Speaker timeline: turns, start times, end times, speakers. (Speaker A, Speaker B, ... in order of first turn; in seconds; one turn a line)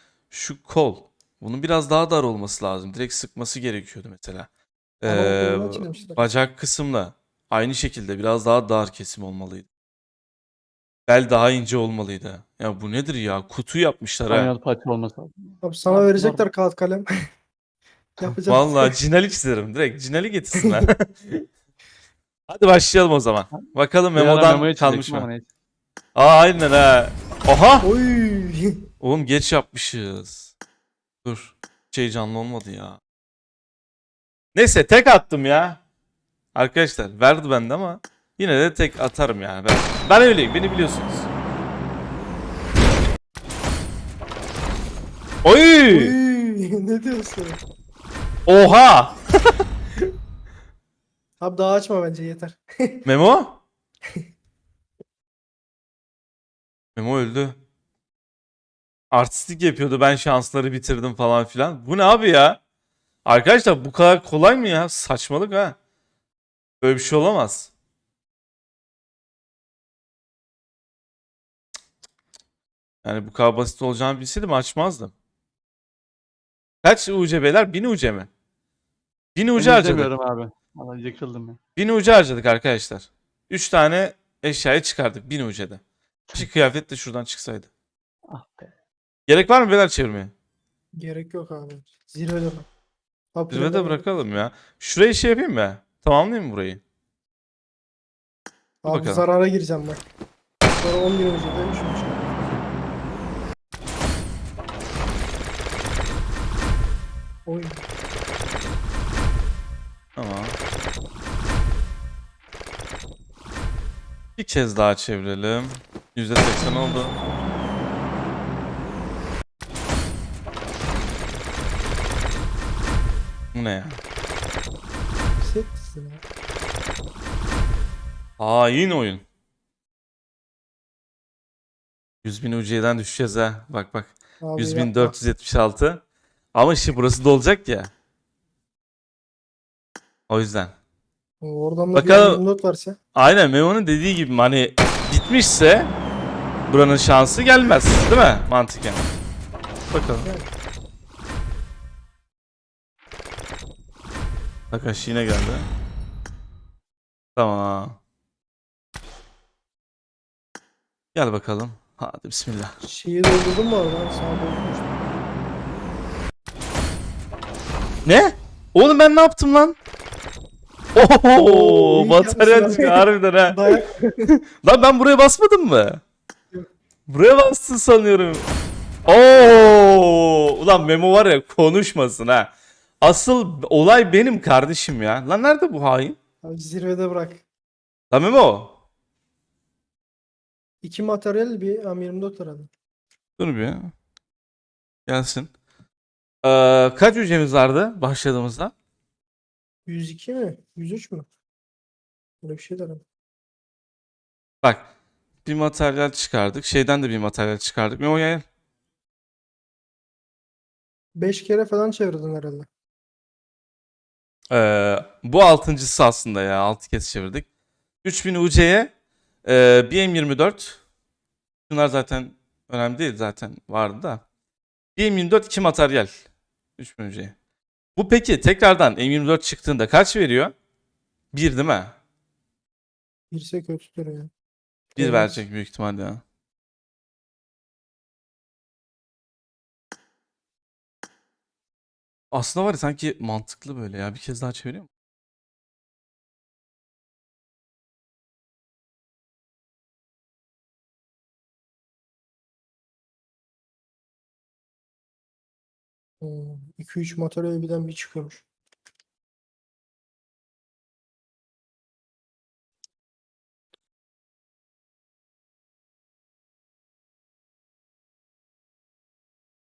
Speaker A: 0.3-4.5
Speaker A: 5.0-9.7
Speaker B: 5.1-6.3
Speaker A: 11.1-14.5
Speaker C: 14.3-16.4
Speaker B: 15.6-17.1
Speaker B: 18.2-18.9
Speaker A: 18.5-21.5
Speaker A: 22.5-25.3
Speaker C: 23.5-25.5
Speaker A: 26.1-27.9
Speaker B: 27.8-28.9
Speaker A: 29.0-30.5
Speaker A: 31.2-33.0
Speaker A: 34.5-35.8
Speaker A: 36.5-41.3
Speaker A: 45.4-46.2
Speaker B: 45.9-47.6
Speaker A: 48.5-49.2
Speaker B: 51.4-53.1
Speaker A: 53.0-53.6
Speaker A: 57.0-57.6
Speaker A: 59.1-62.6
Speaker A: 63.3-65.8
Speaker A: 66.8-67.7
Speaker A: 73.0-75.1
Speaker A: 76.8-78.3
Speaker A: 79.3-80.1
Speaker C: 79.6-81.6
Speaker A: 81.8-85.8
Speaker A: 86.3-87.7
Speaker C: 88.3-88.7
Speaker A: 89.3-90.3
Speaker B: 91.0-92.7
Speaker B: 93.3-94.0
Speaker A: 93.5-96.8
Speaker B: 98.8-100.0
Speaker A: 98.9-99.2
Speaker B: 100.8-102.4
Speaker B: 107.5-107.8
Speaker A: 110.2-110.6
Speaker A: 114.4-117.1
Speaker B: 116.6-117.6
Speaker A: 123.5-124.0
Speaker B: 125.4-126.2
Speaker A: 128.4-129.2
Speaker A: 132.2-136.0
Speaker B: 134.4-135.2
Speaker A: 136.5-137.9
Speaker A: 140.3-140.7
Speaker B: 141.4-143.0
Speaker A: 141.9-142.4
Speaker A: 143.2-145.9
Speaker A: 146.7-149.1
Speaker A: 149.9-150.3
Speaker B: 150.2-150.5
Speaker A: 154.7-155.7
Speaker A: 157.4-158.0
Speaker A: 161.2-162.8
Speaker B: 162.8-164.9
Speaker A: 168.1-169.8
Speaker A: 170.9-173.6
Speaker B: 171.4-174.3
Speaker A: 174.3-176.0
Speaker A: 177.1-178.5
Speaker A: 179.1-186.2
Speaker B: 186.4-187.4
Speaker A: 188.1-188.8
Speaker B: 190.8-192.7
Speaker A: 193.4-193.9
Speaker A: 195.1-195.5
Speaker A: 196.4-198.7
Speaker B: 199.9-201.3
Speaker B: 202.4-203.0
Speaker A: 204.6-204.9
Speaker A: 205.4-208.4
Speaker B: 211.2-212.7
Speaker A: 214.5-217.5
Speaker A: 218.0-218.9
Speaker A: 219.4-220.8
Speaker A: 221.7-224.2
Speaker A: 225.0-226.3
Speaker A: 226.8-227.3
Speaker A: 228.0-230.5
Speaker A: 231.3-232.0
Speaker B: 233.3-234.3
Speaker B: 234.9-235.4
Speaker A: 235.0-236.2
Speaker A: 242.3-244.9
Speaker B: 256.2-258.4